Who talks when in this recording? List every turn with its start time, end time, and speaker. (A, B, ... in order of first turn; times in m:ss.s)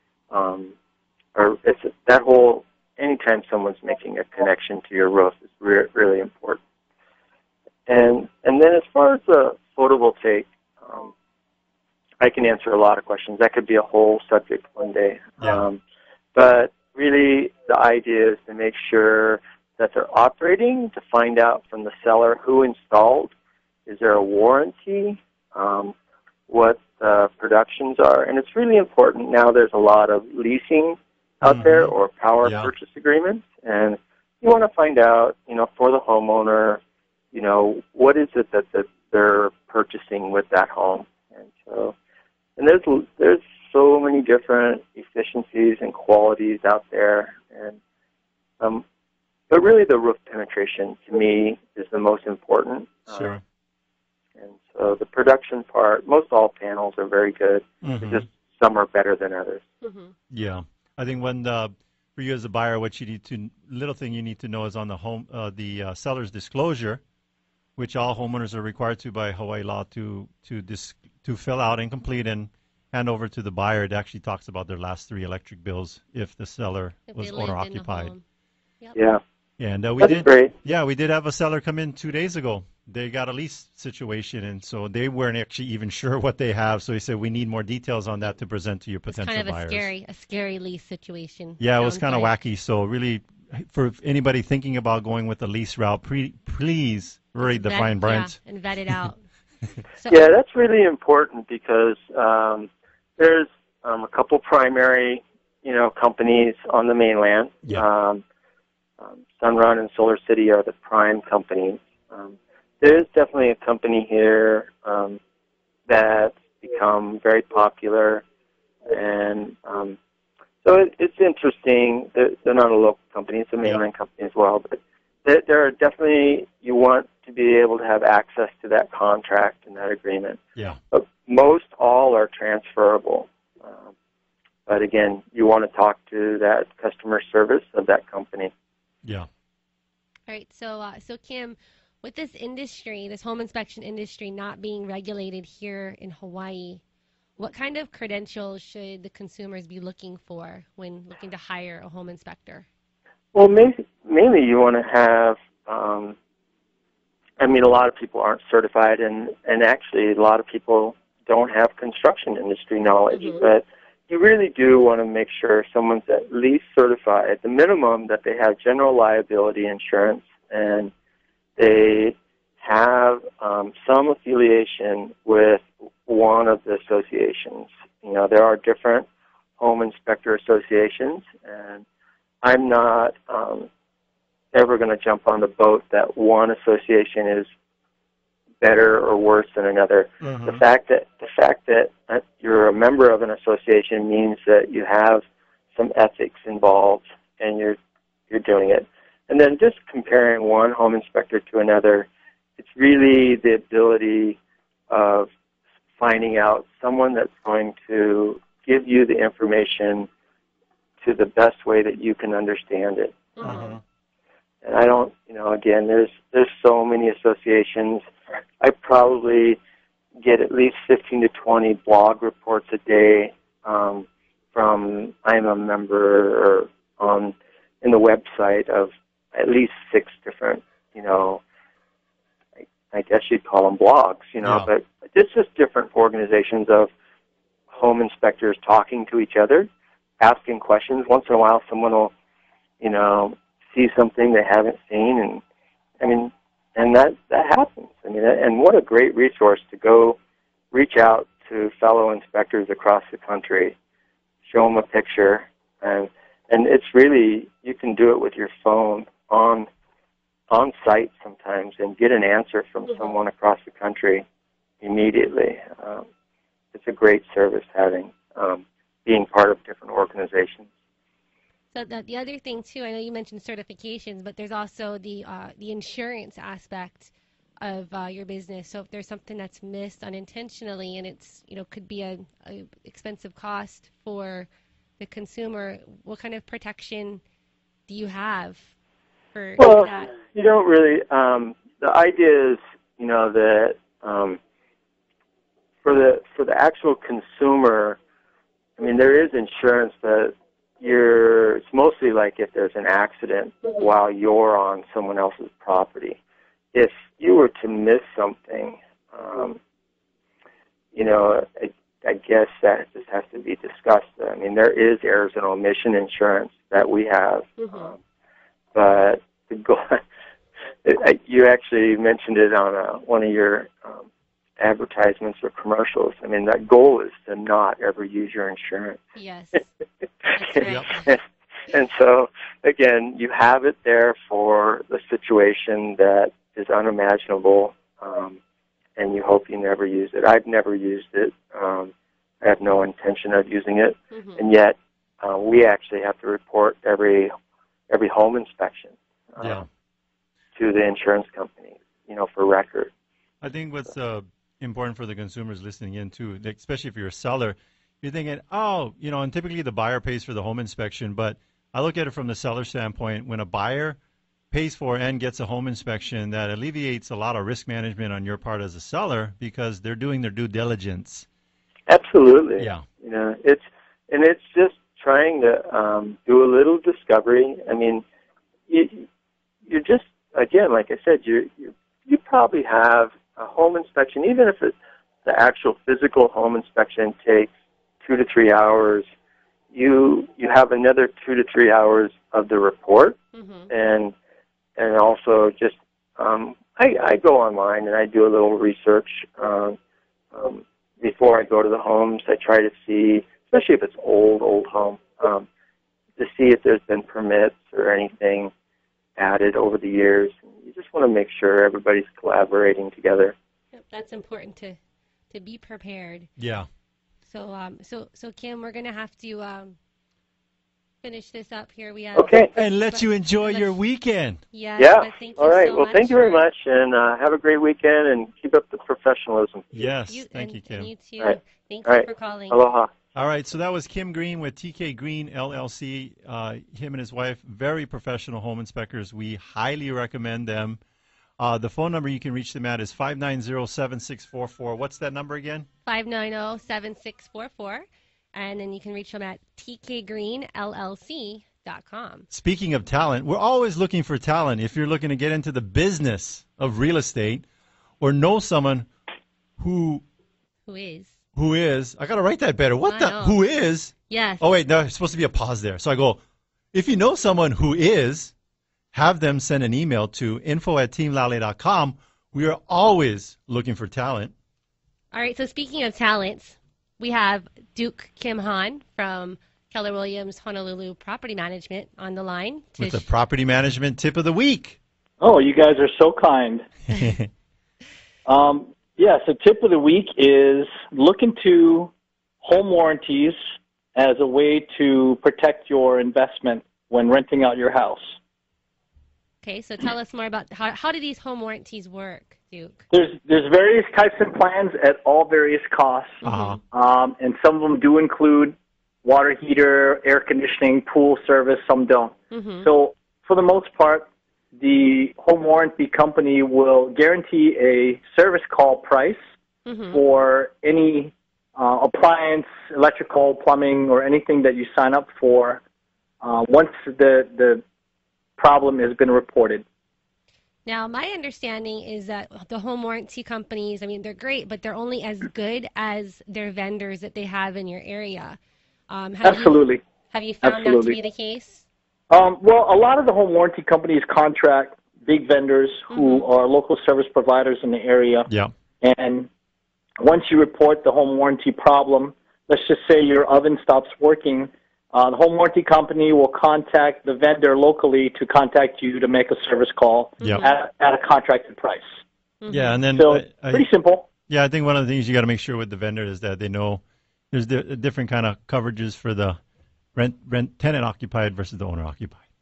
0:00.3-0:00.7 A
0:01.3-0:06.6 A
0:07.9-0:11.1 A
0:12.2-0:15.8 A
0:15.4-0:15.6 B
0:16.3-0:23.3 A
0:23.8-0:25.9 A
0:26.5-0:36.8 A
0:31.4-0:31.9 B
0:32.4-0:32.7 B
0:37.3-0:41.9 A
0:42.6-0:47.8 A
0:49.5-0:53.3 A
0:53.1-0:53.4 B
0:54.4-0:59.6 A
0:57.8-0:58.2 B
0:59.8-1:00.1 C
1:00.3-1:07.0 B
1:07.8-1:18.1 B
1:17.1-1:18.2 C
1:19.0-1:19.2 A
1:19.6-1:29.9 B
1:20.0-1:20.5 A
1:29.1-1:32.4 C
1:31.6-1:38.4 B
1:37.4-1:39.2 C
1:40.0-1:40.2 C
1:40.1-1:48.2 A
1:49.0-1:55.2 A
1:55.9-1:58.2 A
1:58.9-2:00.0 A
2:00.6-2:10.4 A
2:10.9-2:13.9 A
2:14.7-2:18.5 A
2:20.3-2:26.8 C
2:27.4-2:32.6 C
2:33.3-2:36.1 A
2:37.4-2:50.9 A
2:43.1-2:43.4 C
2:51.6-2:59.1 A
2:59.6-3:01.8 A
3:02.4-3:03.7 A
3:04.5-3:07.5 A
3:08.6-3:17.8 A
3:10.2-3:10.6 B
3:18.3-3:24.4 A
3:24.9-3:25.3 A
3:26.0-3:30.1 A
3:31.0-3:33.6 A
3:33.4-3:33.7 C
3:33.4-3:33.8 B
3:34.6-3:38.1 A
3:38.6-3:39.6 A
3:40.2-3:51.4 A
3:52.9-3:56.9 A
3:54.4-3:54.7 B
3:57.7-3:59.7 A
4:00.2-4:02.1 A
4:02.8-4:05.4 A
4:06.0-4:10.2 A
4:10.7-4:13.7 A
4:14.4-4:19.7 A
4:20.5-4:24.2 A
4:24.8-4:26.0 A
4:26.7-4:30.7 A
4:31.7-4:44.5 C
4:45.0-4:47.2 C
4:47.9-4:48.7 C
4:49.3-4:50.1 C
4:49.6-4:54.4 A
4:55.8-4:58.0 A
4:58.8-5:06.2 A
5:06.7-5:09.6 A
5:10.9-5:18.0 A
5:17.6-5:17.9 C
5:18.7-5:20.0 A
5:20.8-5:24.0 A
5:24.6-5:29.0 A
5:29.2-5:29.6 C
5:30.3-5:38.4 A
5:30.3-5:31.0 C
5:30.6-5:30.9 B
5:39.0-5:47.3 A
5:44.1-5:44.4 C
5:47.9-5:49.6 A
5:49.4-5:49.6 B
5:50.6-5:52.9 A
5:53.4-6:04.0 B
6:04.5-6:11.2 B
6:11.9-6:18.0 A
6:12.6-6:12.8 B
6:18.7-6:19.0 A
6:19.7-6:24.7 A
6:25.2-6:27.5 A
6:28.0-6:29.1 A
6:29.7-6:33.2 A
6:33.3-6:33.7 C
6:33.7-6:34.1 A
6:34.8-6:39.8 A
6:40.3-6:45.4 A
6:46.2-6:48.5 A
6:49.2-6:53.3 A
6:53.7-6:54.8 C
6:55.3-6:56.3 C
6:56.4-6:56.7 B
6:57.2-6:59.8 C
7:01.0-7:03.8 C
7:02.2-7:02.5 A
7:02.5-7:04.4 B
7:04.5-7:06.4 C
7:04.8-7:09.7 A
7:09.7-7:10.9 B
7:10.1-7:12.6 C
7:11.2-7:12.9 A
7:13.1-7:20.8 B
7:21.4-7:25.7 B
7:25.8-7:32.3 C
7:32.3-7:37.4 B
7:38.0-7:38.9 B
7:39.6-7:40.0 B
7:40.7-7:41.2 C
7:41.4-7:46.2 B
7:42.8-7:43.4 C
7:44.1-7:44.4 C
7:46.7-7:48.3 B
7:48.9-7:54.3 B
7:55.1-8:03.0 C
8:02.8-8:04.8 B
8:05.2-8:06.7 D
8:06.9-8:07.3 B
8:08.2-8:13.4 D
8:13.9-8:18.2 D
8:19.4-8:22.8 C
8:22.9-8:39.2 D
8:26.2-8:26.6 C
8:26.2-8:26.6 B
8:32.3-8:32.7 C
8:39.6-8:40.0 C
8:39.9-8:45.6 D
8:46.2-8:47.6 D
8:48.4-8:49.6 D
8:50.6-8:58.4 C
8:58.9-9:01.6 C
8:59.2-8:59.8 D
9:00.4-9:01.0 D
9:02.1-9:08.3 D
9:05.9-9:06.3 C
9:08.8-9:09.3 D
9:10.0-9:22.0 D
9:20.2-9:20.5 B
9:20.2-9:20.5 C
9:22.4-9:22.8 C
9:22.5-9:23.7 B
9:22.9-9:24.1 D
9:24.3-9:29.4 B
9:29.9-9:32.2 B